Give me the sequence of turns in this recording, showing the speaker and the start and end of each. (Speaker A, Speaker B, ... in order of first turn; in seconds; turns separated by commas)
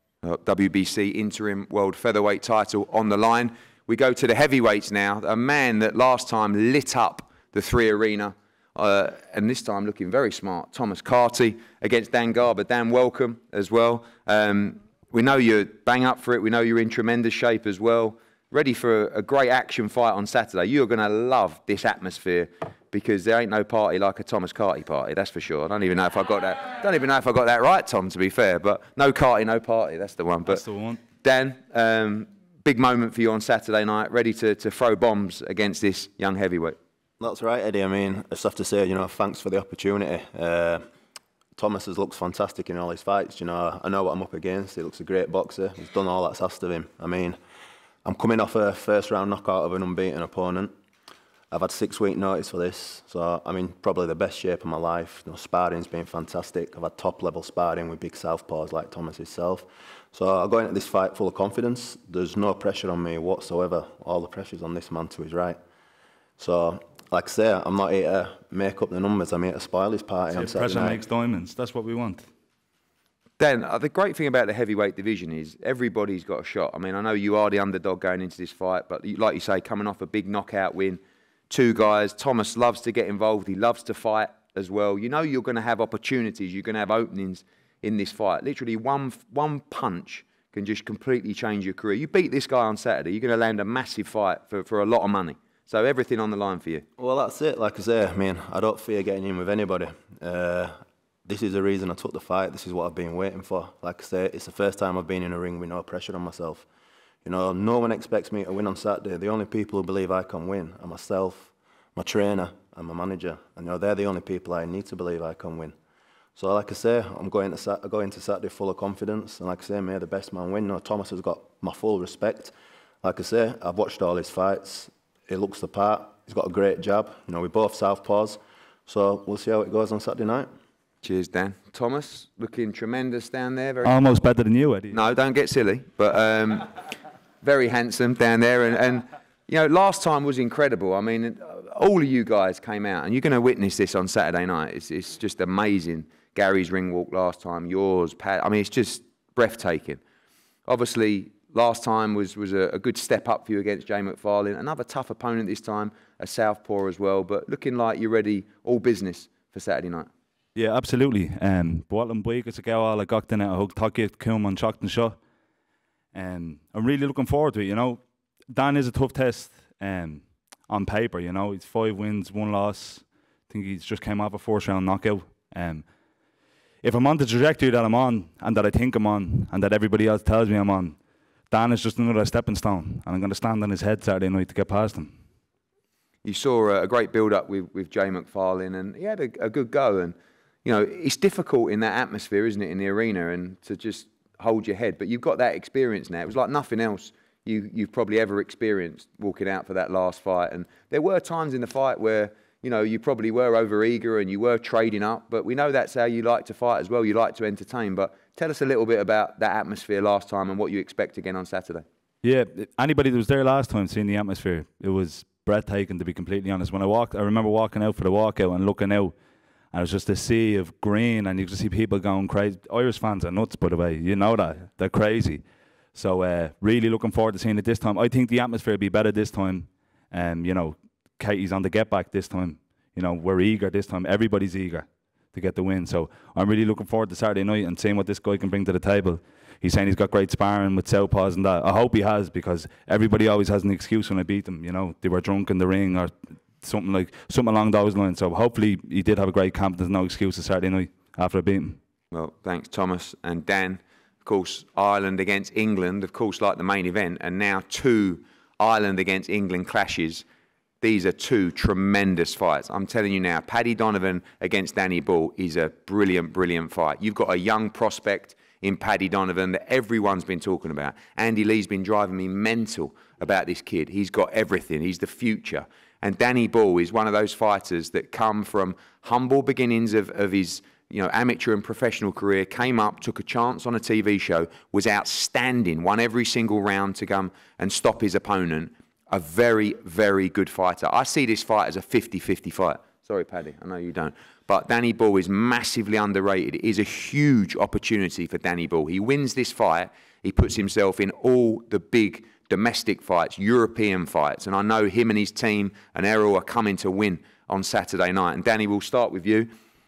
Speaker A: 0.2-30.6, Speaker B: 30.4-31.0, Speaker A: 31.2-36.8, Speaker C: 37.2-40.9, Speaker C: 41.5-47.4, Speaker C: 48.0-50.7, Speaker C: 51.5-65.6, Speaker C: 66.4-71.0, Speaker B: 70.3-72.2, Speaker A: 73.4-96.8, Speaker C: 97.0-106.7, Speaker C: 107.2-115.7, Speaker C: 116.3-130.5, Speaker A: 131.0-133.9, Speaker B: 133.8-134.9, Speaker A: 134.9-136.7, Speaker A: 137.4-150.0, Speaker A: 150.7-160.1, Speaker B: 160.5-165.2, Speaker B: 166.1-175.9, Speaker B: 176.8-181.0, Speaker B: 181.5-185.2, Speaker A: 186.2-211.8, Speaker B: 212.2-219.1, Speaker B: 219.7-251.8, Speaker A: 252.1-260.2, Speaker A: 260.8-309.5